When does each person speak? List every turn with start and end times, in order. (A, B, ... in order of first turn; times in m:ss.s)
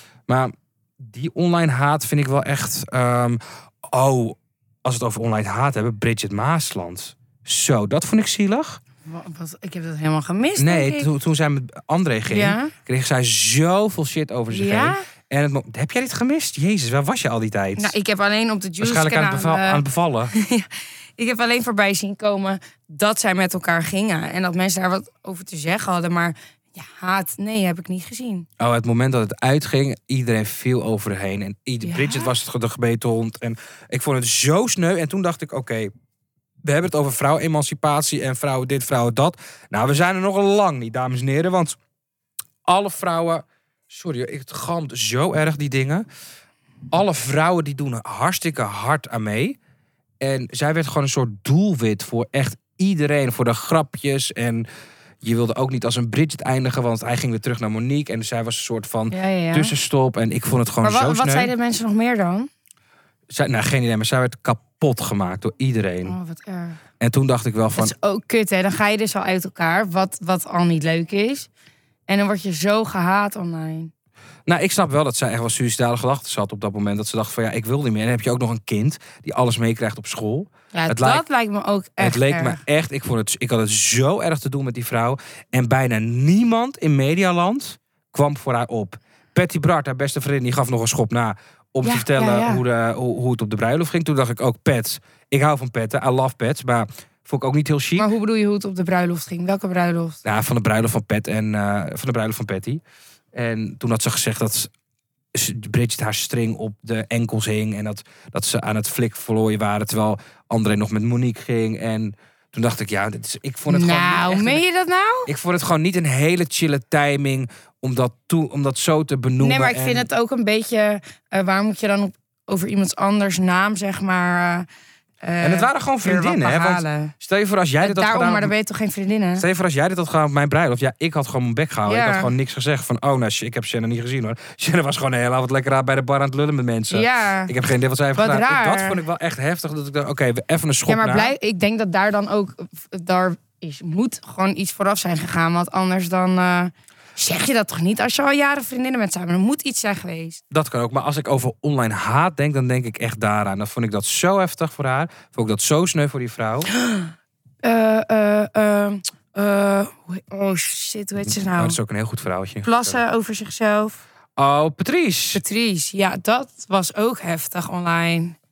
0:00.3-0:08.8 A
0:09.1-0:11.1 B
0:10.6-0:17.9 A
0:12.3-0:12.7 B
0:14.5-0:15.0 B
0:17.8-0:28.5 B
0:18.8-0:20.3 A
0:28.6-0:35.9 A
0:31.8-0:32.3 B
0:36.6-0:41.8 A
0:42.6-0:46.1 A
0:46.9-0:49.6 A
0:50.2-0:54.7 A
0:55.2-1:01.5 A
0:59.1-0:59.7 B
1:00.8-1:02.5 B
1:03.3-1:06.2 A
1:06.0-1:06.8 B
1:07.0-1:07.9 A
1:07.8-1:11.5 B
1:12.1-1:13.9 B
1:14.5-1:21.2 A
1:20.7-1:22.6 B
1:22.0-1:38.1 A
1:31.8-1:32.6 B
1:38.0-1:40.2 B
1:40.2-1:42.8 A
1:43.3-1:44.7 A
1:45.3-1:54.6 A
1:53.7-1:55.3 B
1:55.3-2:00.1 A
1:59.4-2:04.7 B
2:05.2-2:07.1 B
2:05.4-2:08.5 A
2:07.8-2:09.4 B
2:09.4-2:21.3 A
2:11.9-2:12.3 B
2:16.9-2:17.5 B
2:18.2-2:19.0 B
2:20.9-2:30.4 B
2:30.5-2:36.7 A
2:36.7-2:41.8 B
2:41.2-2:43.0 A
2:42.6-2:44.0 B
2:44.4-2:45.4 A
2:45.3-2:48.4 B